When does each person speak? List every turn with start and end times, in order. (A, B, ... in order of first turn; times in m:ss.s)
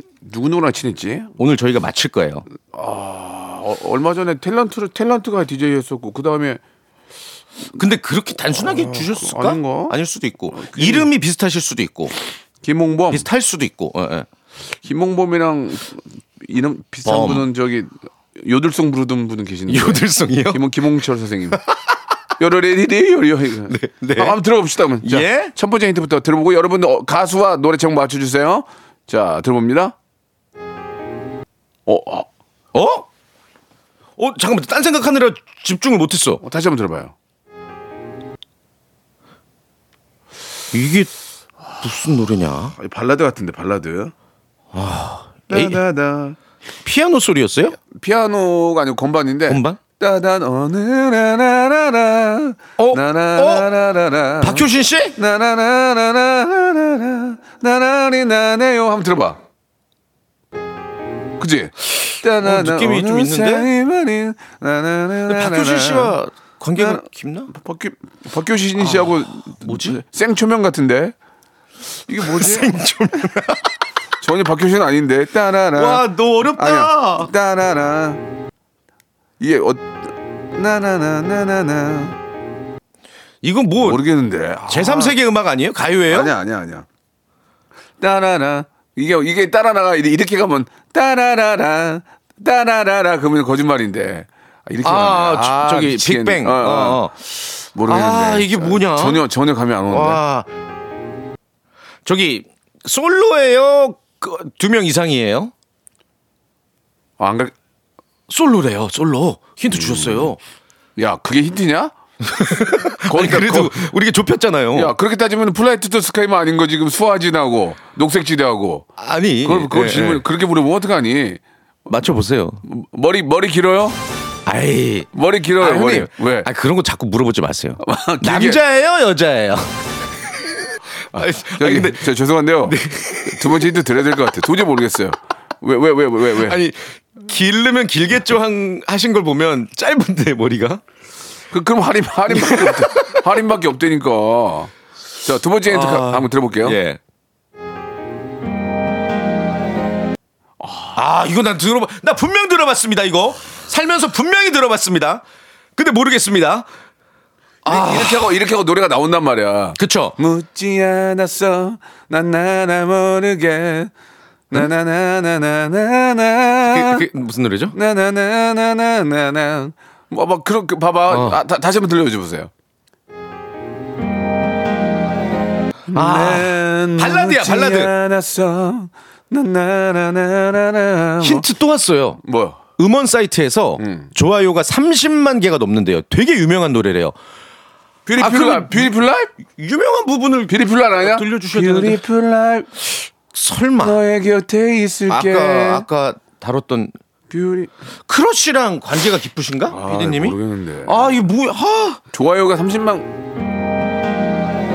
0:00.2-0:01.3 A
0:01.4-0:02.4 B
0:02.7-0:06.6 A
0:07.8-0:12.1 B
0:08.5-0:09.9 A
0:10.5-0:11.1 A
0:12.6-0:13.2 A
0:13.1-0:14.3 B
0:14.8-0:21.6 A
0:17.0-0:17.4 B
0:19.7-0:20.6 B
0:22.4-0:29.9 A
0:23.7-0:24.4 B
0:25.0-0:25.5 B
0:31.8-0:32.3 A
0:32.7-0:33.1 B
0:34.2-0:36.4 B
0:36.4-0:37.1 A
0:40.7-0:41.1 B
0:41.8-0:42.7 B
0:42.8-0:44.1 A
0:44.7-0:45.8 B
0:45.5-0:46.4 A
0:46.8-0:47.8 B
0:47.8-0:59.4 A
0:49.5-0:49.8 B
0:52.8-0:53.7 B
0:54.4-0:55.1 B
1:01.4-1:06.2 A
1:02.4-1:03.7 B
1:05.3-1:07.5 B
1:06.7-1:11.1 A
1:08.8-1:10.0 B
1:12.1-1:12.7 A
1:12.2-1:13.6 B
1:14.2-1:18.2 A
1:15.7-1:17.3 B
1:19.4-1:22.2 A
1:23.4-1:24.0 B
1:23.8-1:25.2 A
1:24.7-1:26.3 B
1:26.1-1:26.8 A
1:28.0-1:40.2 A
1:34.8-1:37.1 B
1:37.9-1:39.2 B
1:39.9-1:40.5 B
1:42.0-1:45.5 B
1:47.2-1:47.5 A
1:48.3-1:50.4 B
1:49.7-1:50.3 A
1:51.0-1:51.9 A
1:52.2-1:54.9 B
1:53.1-1:53.8 A
1:54.7-1:58.9 A
1:59.0-2:00.2 B
1:59.4-2:01.4 A
2:01.9-2:02.6 B
2:02.6-2:04.0 A
2:04.4-2:09.9 B
2:05.1-2:06.5 A
2:07.8-2:08.6 A
2:11.0-2:12.1 B
2:11.1-2:16.6 A
2:12.6-2:13.7 B
2:16.4-2:20.8 B
2:21.5-2:26.8 A
2:22.3-2:23.2 B
2:25.7-2:27.0 B
2:30.6-2:31.0 A
2:30.9-2:35.2 B
2:35.8-2:36.6 B
2:37.6-2:43.9 A
2:37.6-2:38.3 B
2:39.8-2:40.2 B
2:44.5-2:47.0 A
2:46.7-2:47.7 B
2:47.7-2:52.5 A
2:51.1-2:51.4 B
2:55.9-3:01.5 A
2:55.9-2:57.9 B
3:01.2-3:02.2 B
3:02.2-3:02.6 A
3:02.8-3:07.1 B
3:03.8-3:04.1 A
3:08.0-3:09.3 A
3:08.2-3:12.0 B
3:10.5-3:12.8 A
3:13.3-3:14.0 B
3:13.8-3:15.9 A
3:15.1-3:16.9 B
3:17.3-3:17.7 A
3:18.1-3:22.0 B
3:19.7-3:21.2 A
3:22.1-3:23.1 A